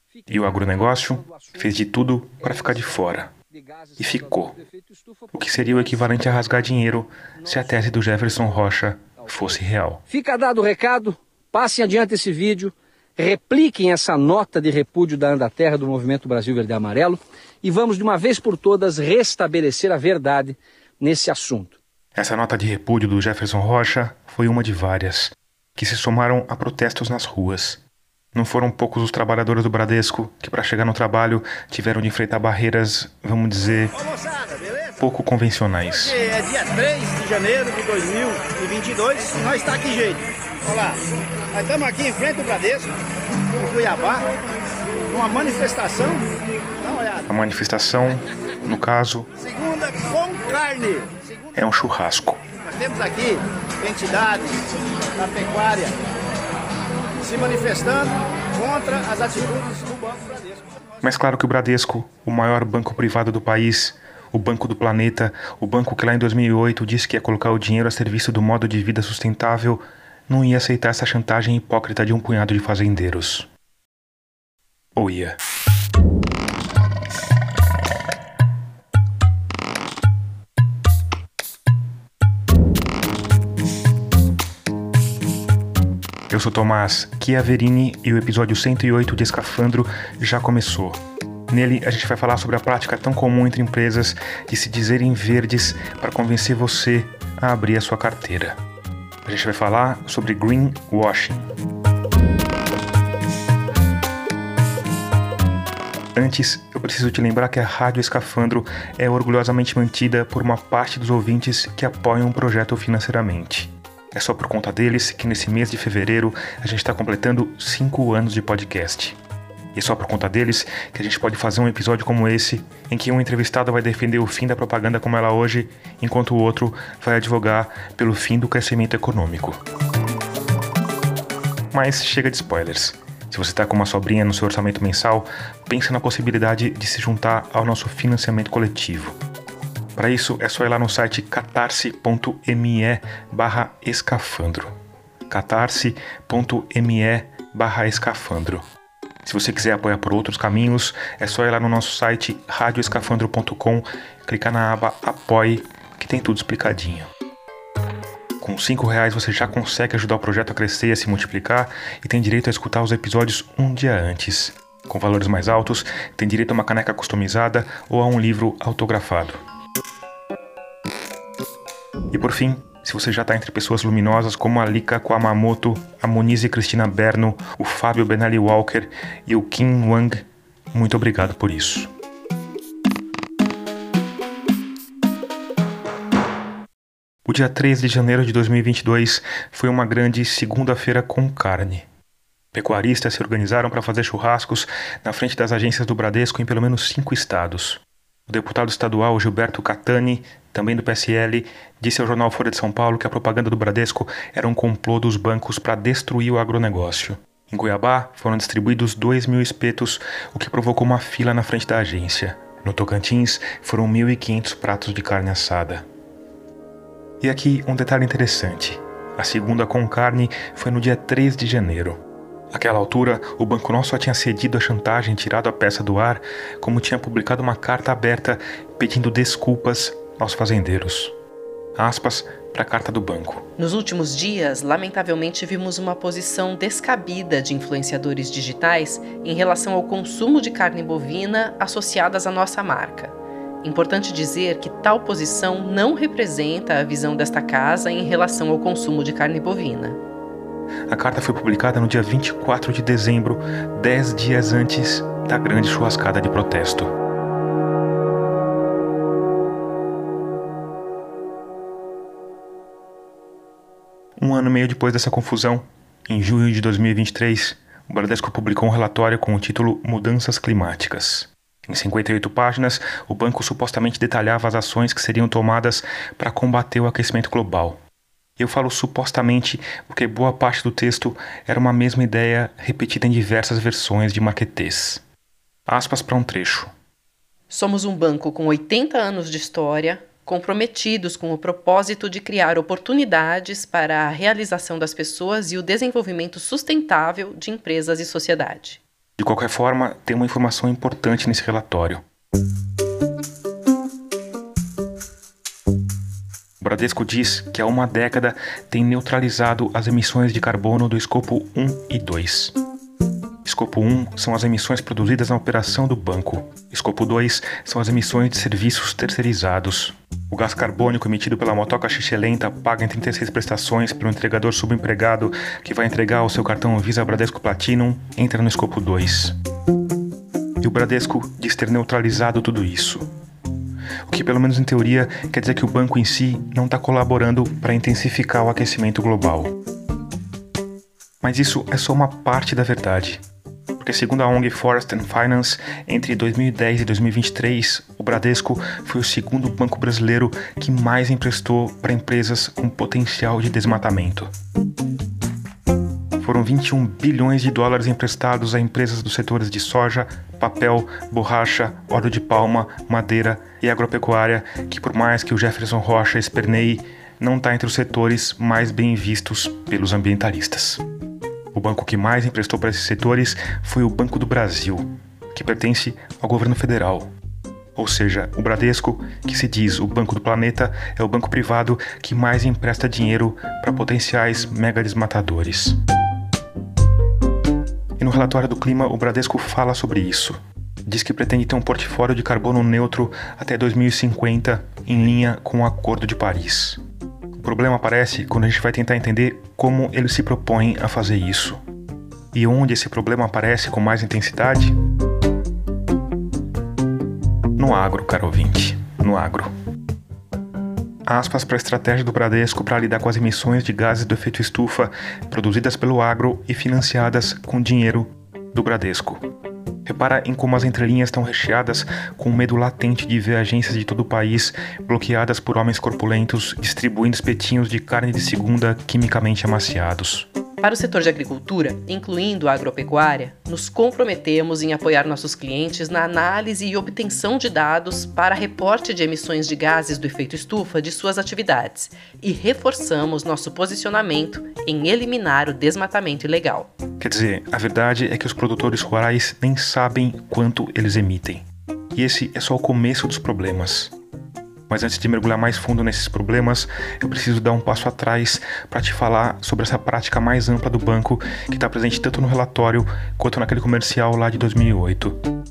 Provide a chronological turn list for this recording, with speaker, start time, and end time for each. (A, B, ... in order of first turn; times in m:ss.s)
0:00.1-0:01.7 A
0:00.3-0:03.3 B
0:02.4-0:06.7 A
0:04.0-0:04.6 B
0:05.3-0:10.0 B
0:07.4-0:21.8 A
0:22.2-0:27.8 B
0:28.3-0:33.9 B
0:34.0-0:34.9 C
0:35.0-0:36.2 B
0:35.9-0:41.0 C
0:41.5-0:43.0 C
0:43.5-0:44.3 C
0:45.1-0:47.2 C
0:47.3-0:49.3 B
0:49.4-0:51.5 C
0:51.5-0:52.4 B
0:52.6-0:55.9 C
0:57.2-1:00.6 C
1:01.0-1:13.5 B
1:15.0-1:15.4 B
1:26.3-1:38.6 B
1:39.2-1:41.5 B
1:46.1-1:59.2 B
1:59.7-2:09.6 B
2:11.7-2:19.2 B
2:20.0-2:24.7 B
2:25.3-2:28.6 B
2:29.2-2:37.1 B
2:38.4-2:49.4 B
2:52.1-3:01.9 B
3:07.2-3:11.8 B
3:12.5-3:35.8 B
3:37.2-3:51.1 B
3:51.8-3:53.5 B
3:53.6-4:10.0 D
4:10.9-4:16.9 B
4:24.2-4:37.8 B
4:38.4-4:45.0 B
4:45.7-4:46.7 B
4:47.5-4:58.8 D
4:59.2-5:02.0 B
5:06.6-5:12.5 B
5:13.4-5:29.4 B
5:30.6-5:33.1 B
5:34.0-5:39.6 B
5:41.2-5:43.2 B
5:43.8-5:54.3 B
5:56.2-6:10.8 B
6:11.5-6:17.1 B
6:17.8-6:25.8 B
6:28.0-6:36.8 B
6:37.4-6:41.6 B
6:42.3-6:44.8 B
6:47.6-6:49.5 B
6:51.0-6:59.2 B
6:59.8-7:10.3 B
7:10.6-7:26.7 D
7:27.0-7:33.9 B
7:34.7-7:45.2 B